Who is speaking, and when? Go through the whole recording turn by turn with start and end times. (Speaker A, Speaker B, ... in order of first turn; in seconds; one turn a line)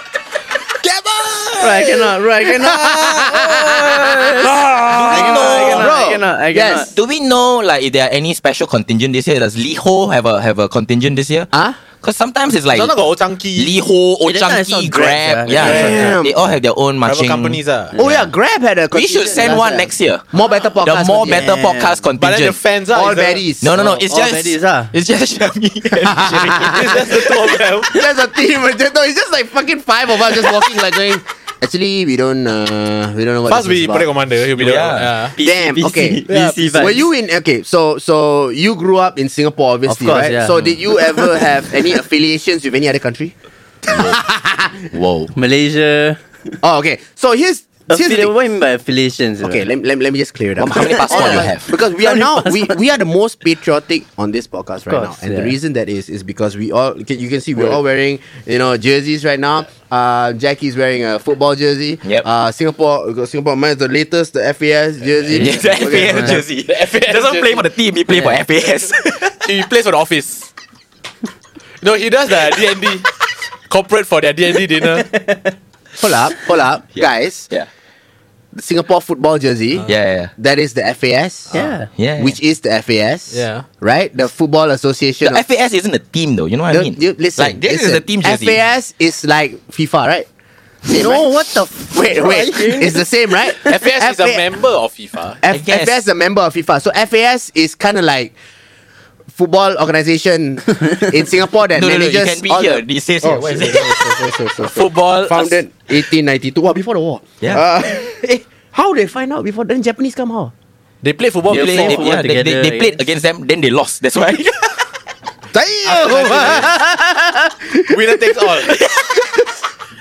Speaker A: 0.8-6.9
Speaker B: 1.6-6.9
Speaker C: 4.5-6.0
Speaker C: 6.9-12.9
Speaker A: 11.5-11.8
Speaker D: 12.7-13.7
Speaker C: 13.6-18.2
Speaker B: 14.2-16.1
Speaker A: 15.6-16.4
Speaker D: 15.6-16.1
Speaker D: 17.0-17.9
Speaker A: 17.9-21.5
Speaker C: 18.9-20.2
Speaker C: 20.8-22.6
Speaker B: 21.2-22.0
Speaker D: 22.2-23.4
Speaker A: 22.9-23.9
Speaker C: 23.6-27.4
Speaker B: 23.7-24.9
Speaker A: 26.0-27.2
Speaker D: 26.6-28.0
Speaker A: 27.8-34.1
Speaker D: 33.5-35.3
Speaker C: 34.6-36.3
Speaker A: 35.4-43.3
Speaker B: 35.8-37.1
Speaker D: 36.3-36.9
Speaker B: 39.9-40.5
Speaker A: 43.8-44.9
Speaker C: 43.9-44.2
Speaker C: 44.9-45.3
Speaker B: 45.3-46.2
Speaker A: 46.6-48.3
Speaker B: 47.9-49.6
Speaker A: 49.4-66.4
Speaker C: 50.6-51.7
Speaker B: 51.1-52.8
Speaker B: 54.9-55.5
Speaker C: 65.3-69.4
Speaker B: 65.9-66.4
Speaker D: 66.7-67.6
Speaker D: 69.3-70.5
Speaker D: 71.8-73.1
Speaker D: 73.7-75.2
Speaker A: 76.0-77.5
Speaker C: 77.0-77.7
Speaker A: 78.5-81.5
Speaker C: 79.9-80.3
Speaker B: 81.5-81.9
Speaker C: 82.0-82.4
Speaker A: 82.2-85.4
Speaker D: 83.3-83.7
Speaker C: 85.2-88.6
Speaker A: 86.7-90.3
Speaker A: 90.8-94.5
Speaker B: 92.1-93.0
Speaker D: 93.5-95.4
Speaker A: 95.4-98.3
Speaker C: 95.5-96.0
Speaker A: 99.3-110.5
Speaker C: 101.7-104.0
Speaker D: 104.6-105.6
Speaker D: 111.0-112.0
Speaker C: 111.5-114.8
Speaker B: 111.5-113.0
Speaker A: 115.5-119.5
Speaker D: 115.8-116.8
Speaker D: 117.8-118.8